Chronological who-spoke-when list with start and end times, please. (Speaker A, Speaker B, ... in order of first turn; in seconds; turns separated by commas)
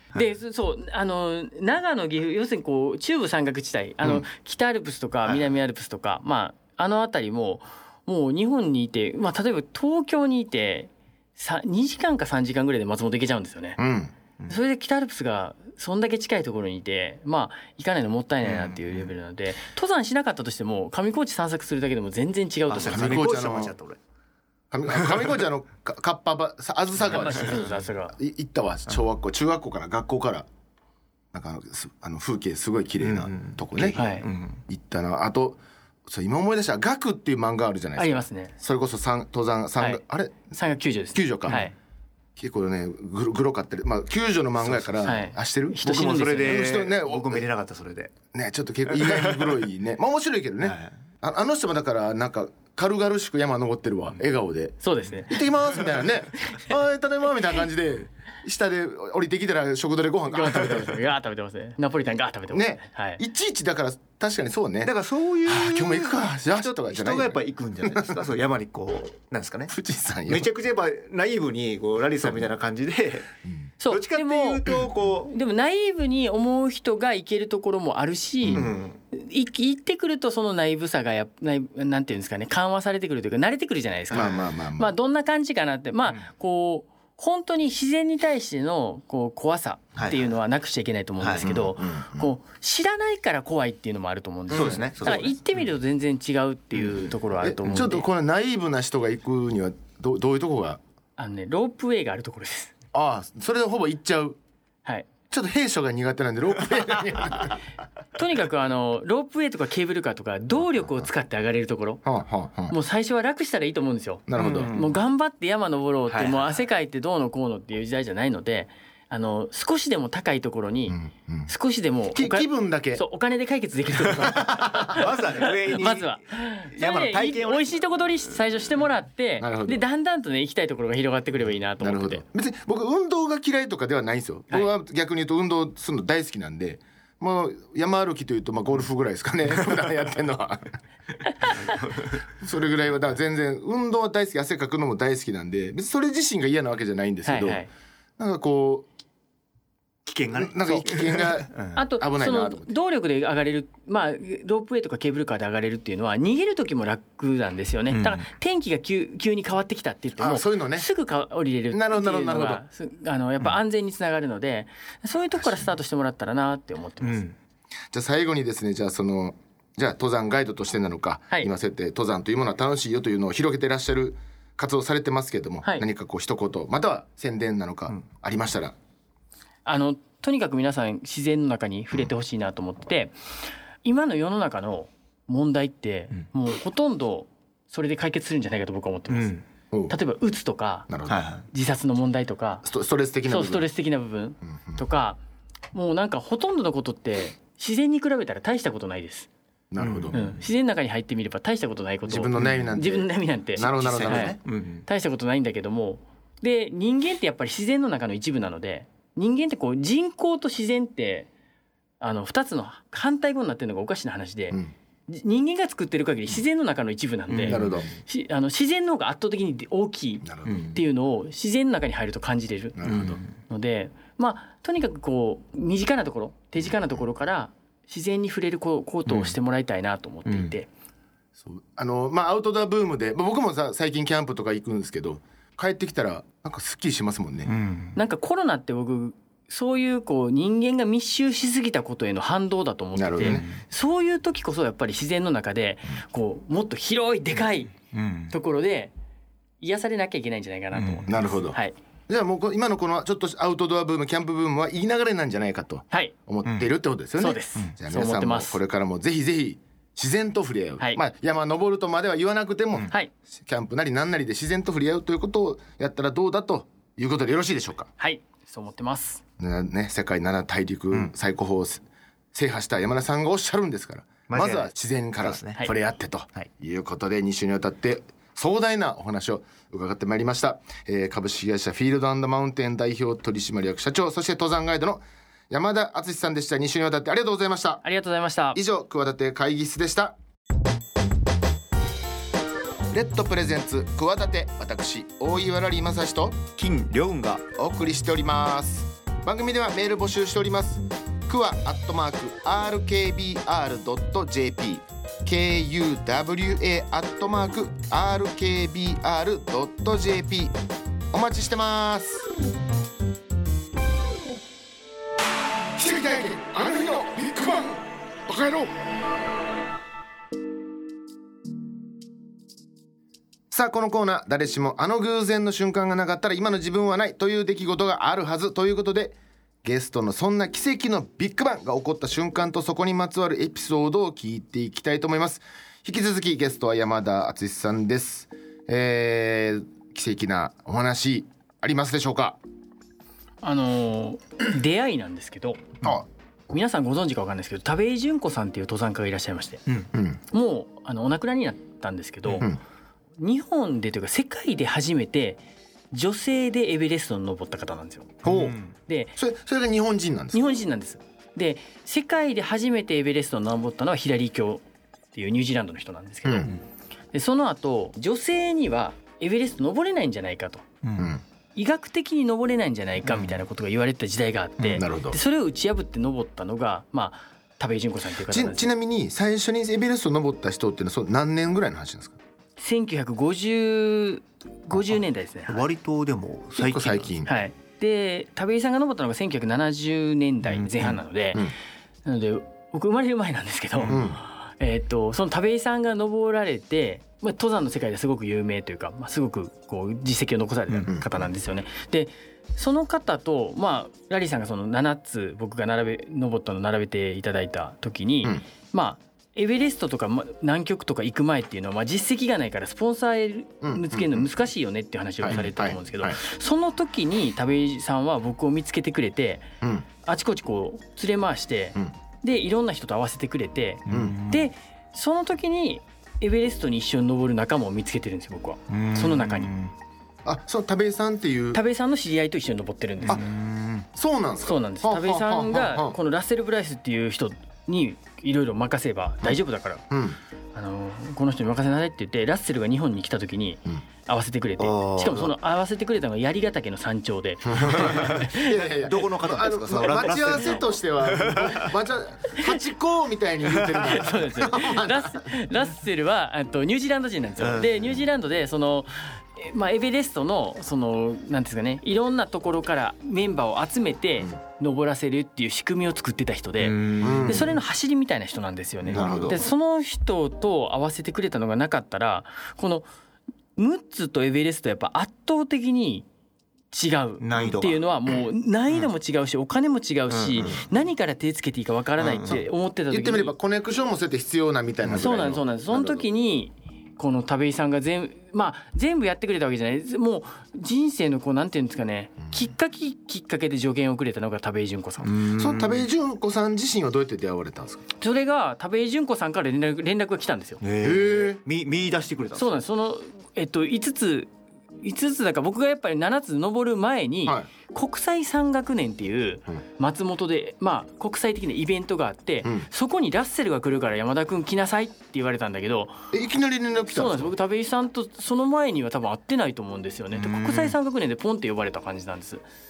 Speaker A: 0.1-13.8, Speaker B: 13.8-14.1, Speaker A: 14.5-23.2, Speaker C: 18.5-19.0, Speaker C: 22.7-24.0, Speaker B: 22.8-23.8, Speaker B: 24.7-30.5, Speaker A: 27.1-28.2, Speaker C: 27.4-27.6, Speaker B: 31.3-40.5, Speaker C: 33.0-34.6, Speaker A: 34.0-34.3, Speaker A: 38.0-38.5, Speaker A: 40.5-41.7, Speaker B: 41.1-41.7, Speaker B: 42.4-45.9, Speaker C: 44.6-45.0, Speaker A: 45.0-46.6, Speaker C: 45.8-48.1, Speaker B: 46.4-47.5, Speaker B: 48.3-54.8, Speaker C: 48.9-49.5, Speaker C: 50.6-50.9, Speaker A: 54.8-55.4, Speaker B: 55.3-61.0, Speaker A: 60.3-63.2, Speaker B: 62.5-64.9, Speaker C: 64.8-69.7, Speaker B: 65.5-68.2, Speaker B: 69.7-70.5, Speaker C: 70.3-73.3, Speaker A: 73.8-98.1, Speaker C: 73.9-75.3, Speaker C: 78.5-79.0, Speaker B: 84.1-84.9, Speaker C: 90.0-90.3, Speaker C: 91.2-91.5, Speaker B: 91.4-92.3, Speaker C: 94.5-95.3, Speaker B: 94.5-95.3, Speaker B: 97.4-100.8, Speaker A: 101.2-102.7, Speaker B: 102.9-104.4, Speaker B: 105.3-107.6, Speaker A: 108.2-112.0, Speaker B: 112.0-112.8, Speaker A: 112.7-132.2, Speaker B: 114.3-114.7, Speaker C: 114.4-115.0, Speaker C: 116.1-116.6, Speaker B: 120.9-121.5, Speaker B: 122.1-123.0, Speaker B: 124.2-125.0, Speaker C: 124.2-127.9, Speaker B: 129.4-129.8, Speaker B: 131.8-140.8, Speaker C: 141.5-142.2, Speaker B: 142.4-147.7, Speaker A: 147.2-147.7, Speaker B: 148.2-148.9, Speaker C: 150.1-151.8, Speaker B: 150.3-152.7, Speaker A: 151.8-167.3, Speaker C: 157.9-158.3, Speaker B: 160.2-160.9, Speaker B: 161.7-162.6, Speaker C: 167.0-167.3, Speaker B: 167.9-178.8, Speaker A: 179.7-183.1, Speaker A: 183.8-189.4, Speaker C: 189.1-189.4, Speaker A: 189.9-190.9, Speaker B: 190.9-191.2, Speaker C: 191.1-191.5, Speaker A: 191.5-192.7, Speaker B: 192.6-193.7, Speaker A: 193.3-195.2, Speaker B: 194.5-194.8, Speaker A: 195.7-199.3, Speaker B: 199.7-200.2, Speaker C: 199.8-200.3, Speaker A: 200.1-211.3, Speaker B: 202.1-204.4, Speaker C: 202.4-202.8, Speaker C: 203.6-204.8, Speaker A: 212.0-230.7, Speaker C: 217.3-217.8, Speaker B: 217.5-217.9, Speaker B: 220.2-220.8, Speaker C: 220.5-220.7, Speaker B: 222.8-223.2, Speaker C: 222.8-223.2, Speaker C: 229.1-229.3, Speaker C: 230.3-230.5, Speaker B: 231.4-237.5, Speaker C: 237.5-238.0, Speaker A: 237.9-247.7, Speaker B: 243.0-243.5, Speaker C: 243.2-243.6, Speaker C: 247.9-248.3, Speaker A: 248.3-248.9, Speaker A: 249.6-251.8, Speaker C: 250.7-251.1, Speaker B: 251.1-251.6, Speaker B: 252.1-267.9, Speaker C: 256.4-256.7, Speaker A: 257.2-258.6, Speaker A: 268.0-269.2, Speaker B: 269.4-287.8, Speaker C: 274.3-274.7, Speaker C: 275.2-275.7, Speaker A: 287.8-288.6, Speaker B: 288.5-290.2, Speaker B: 292.9-296.4, Speaker C: 296.6-297.5, Speaker B: 297.5-310.6, Speaker B: 311.1-312.3, Speaker B: 315.8-318.7, Speaker B: 323.5-342.4, Speaker A: 343.4-345.6, Speaker A: 346.5-349.6, Speaker B: 349.9-350.2, Speaker A: 350.3-352.5, Speaker A: 353.2-355.4, Speaker A: 355.9-358.2, Speaker B: 358.2-358.6, Speaker C: 358.2-358.7, Speaker A: 358.9-359.1, Speaker B: 359.2-360.5, Speaker A: 360.3-364.6, Speaker A: 365.1-366.6, Speaker B: 366.2-366.5, Speaker A: 367.1-370.6, Speaker C: 370.8-371.1, Speaker B: 371.0-371.2, Speaker A: 371.6-378.7, Speaker C: 373.1-373.4, Speaker B: 374.6-375.2, Speaker B: 378.3-382.2, Speaker A: 382.6-385.6, Speaker C: 385.5-387.3, Speaker B: 386.6-387.3, Speaker A: 387.2-391.5, Speaker C: 390.5-390.9, Speaker A: 392.1-419.4, Speaker C: 393.8-394.1, Speaker B: 393.9-394.2, Speaker B: 413.6-414.3, Speaker B: 415.2-416.2, Speaker A: 420.0-429.6, Speaker C: 423.9-424.5, Speaker B: 423.9-424.2, Speaker C: 428.7-429.7, Speaker B: 430.2-431.6, Speaker A: 431.5-433.3, Speaker C: 433.0-433.9, Speaker B: 433.9-436.0, Speaker A: 434.4-439.8, Speaker B: 439.9-440.2, Speaker A: 440.5-448.6, Speaker C: 444.6-445.4, Speaker B: 447.5-455.3, Speaker C: 447.7-448.2, Speaker C: 448.8-451.7, Speaker A: 449.9-450.5, Speaker A: 453.8-472.9, Speaker C: 457.4-458.0, Speaker C: 466.6-467.6, Speaker B: 467.0-467.6, Speaker C: 468.9-469.4, Speaker B: 468.9-469.4, Speaker A: 473.6-476.1, Speaker A: 476.7-483.3, Speaker C: 477.2-477.8, Speaker C: 480.1-480.6, Speaker C: 482.1-482.4, Speaker B: 482.2-486.1, Speaker A: 484.9-495.1, Speaker C: 495.0-495.9, Speaker B: 495.4-497.9, Speaker A: 498.0-500.6, Speaker C: 500.6-502.6, Speaker B: 500.8-501.4, Speaker A: 502.4-504.3, Speaker A: 504.8-516.0, Speaker B: 516.1-517.3, Speaker A: 516.9-522.4, Speaker C: 520.2-520.7